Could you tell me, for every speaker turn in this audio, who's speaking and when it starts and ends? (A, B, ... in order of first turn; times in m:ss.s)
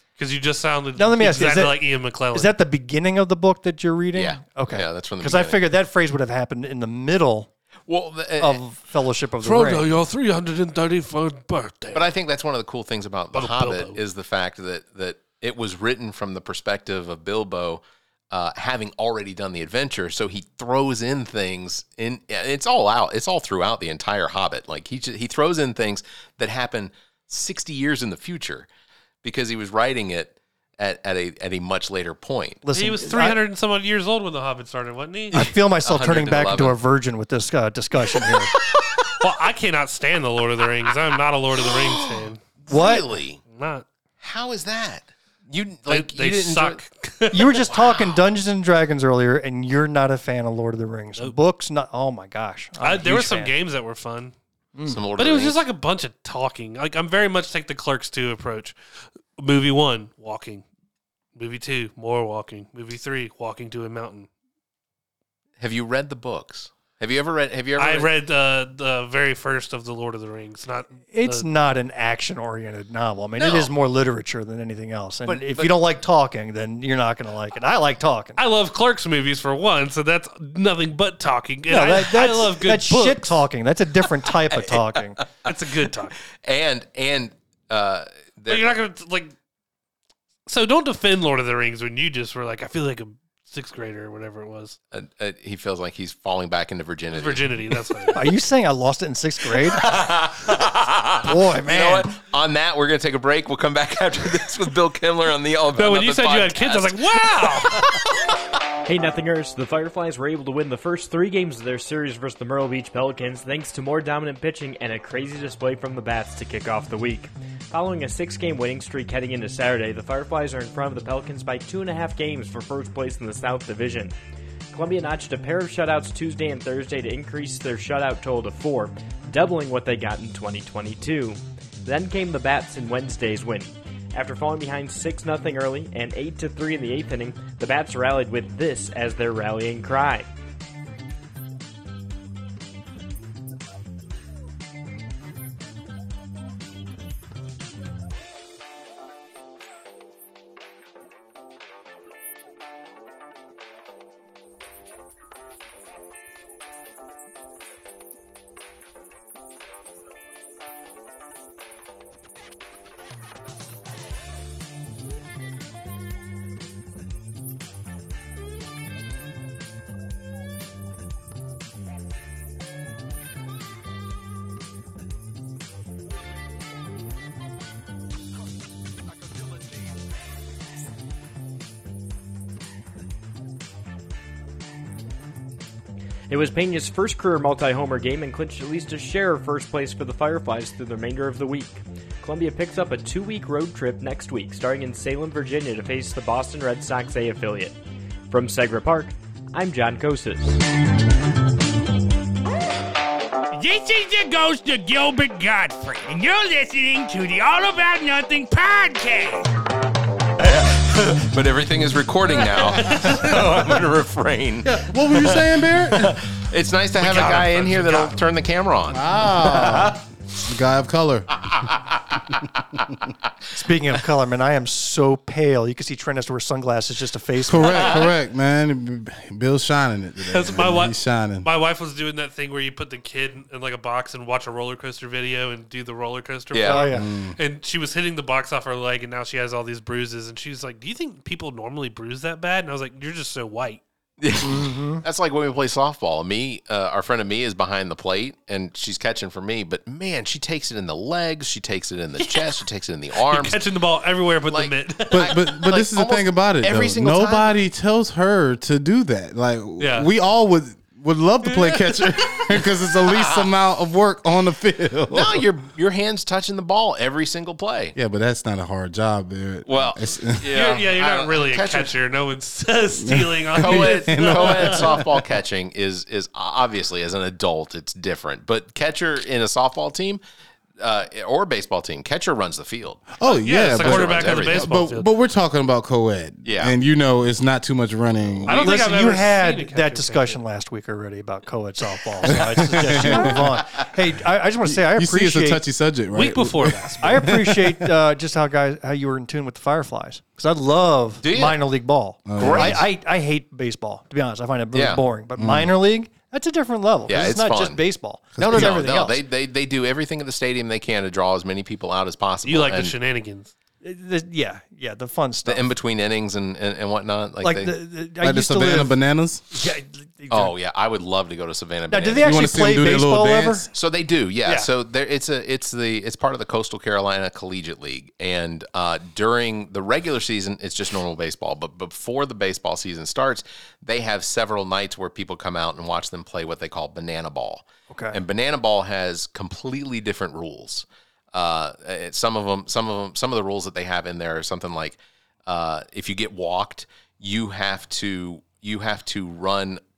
0:00.2-0:02.5 A
0:01.0-0:07.5 B
0:04.1-0:05.6 C
0:07.9-0:08.6 C
0:08.4-0:09.9 B
0:09.4-0:12.1 A
0:11.9-0:28.7 C
0:13.3-0:14.0 A
0:29.2-0:32.6 C
0:32.6-0:33.4 B
0:32.7-0:35.4 A
0:35.3-0:38.5 B
0:35.8-0:36.8 C
0:39.2-0:42.4 A
0:41.6-0:43.4 C
0:42.7-0:43.1 B
0:43.5-0:43.8 A
0:44.2-0:46.8 C
0:45.9-0:47.6 A
0:47.3-0:53.5 B
0:47.7-0:48.2 C
0:52.8-0:54.3 A
0:54.8-0:55.0 B
0:54.9-0:55.6 C
0:55.2-0:58.8 A
0:59.4-1:00.6 A
1:01.4-1:04.3 A
1:05.6-1:08.1 C
1:07.8-1:11.5 A
1:11.1-1:18.4 B
1:13.4-1:13.7 C
1:15.3-1:15.7 C
1:18.4-1:23.4 A
1:21.7-1:25.2 B
1:25.4-1:26.2 A
1:26.4-1:28.7 C
1:28.5-1:29.3 A
1:30.5-1:34.8 A
1:34.9-1:37.5 C
1:37.1-1:38.3 A
1:38.1-1:39.9 B
1:39.8-1:48.0 C
1:41.2-1:42.2 B
1:45.8-1:47.8 A
1:48.8-2:04.2 D
2:04.7-2:20.3 D
3:06.3-3:17.8 D
3:18.3-3:20.6 D
3:23.6-3:29.5 E
3:30.4-3:39.9 C
3:32.9-3:33.2 A
3:33.0-3:33.3 F
3:34.6-3:36.2 F
3:37.0-3:38.2 A
3:38.9-3:41.6 F
3:43.5-3:48.0 B
3:47.5-3:51.5 F
3:50.3-4:03.8 A
3:56.5-3:56.8 C
3:56.6-3:57.1 B
3:56.9-3:57.4 F
4:04.2-4:13.6 C
4:04.4-4:05.0 B
4:13.2-4:15.4 A
4:14.5-4:17.6 C
4:15.1-4:25.4 F
4:19.8-4:20.1 A
4:21.4-4:22.5 A
4:25.1-4:28.0 C
4:28.0-4:30.4 F
4:29.7-4:31.9 C
4:30.5-4:35.0 A
4:33.0-4:35.0 F
4:33.6-4:40.2 C
4:40.8-4:43.1 C
4:43.2-4:48.7 F
4:43.3-4:45.1 A
4:43.8-4:44.6 C
4:46.4-4:46.8 C
4:48.5-4:50.4 A
4:48.5-4:55.6 B
4:52.3-4:53.5 F
4:54.7-4:57.9 F
4:56.1-4:57.4 A
4:57.0-5:09.2 B
5:01.2-5:01.6 C
5:02.3-5:02.8 F
5:02.4-5:02.8 C
5:04.7-5:05.0 C
5:05.4-5:05.7 F
5:07.1-5:07.8 C
5:08.4-5:08.8 F
5:08.4-5:13.0 C
5:12.4-5:13.5 A
5:13.8-5:15.7 B
5:15.4-5:17.7 C
5:17.4-5:19.0 B
5:18.2-5:19.4 F
5:19.5-5:20.5 B
5:20.3-5:22.3 C
5:21.9-5:23.7 B
5:22.2-5:23.7 F
5:23.7-5:49.8 C
5:37.9-5:38.2 B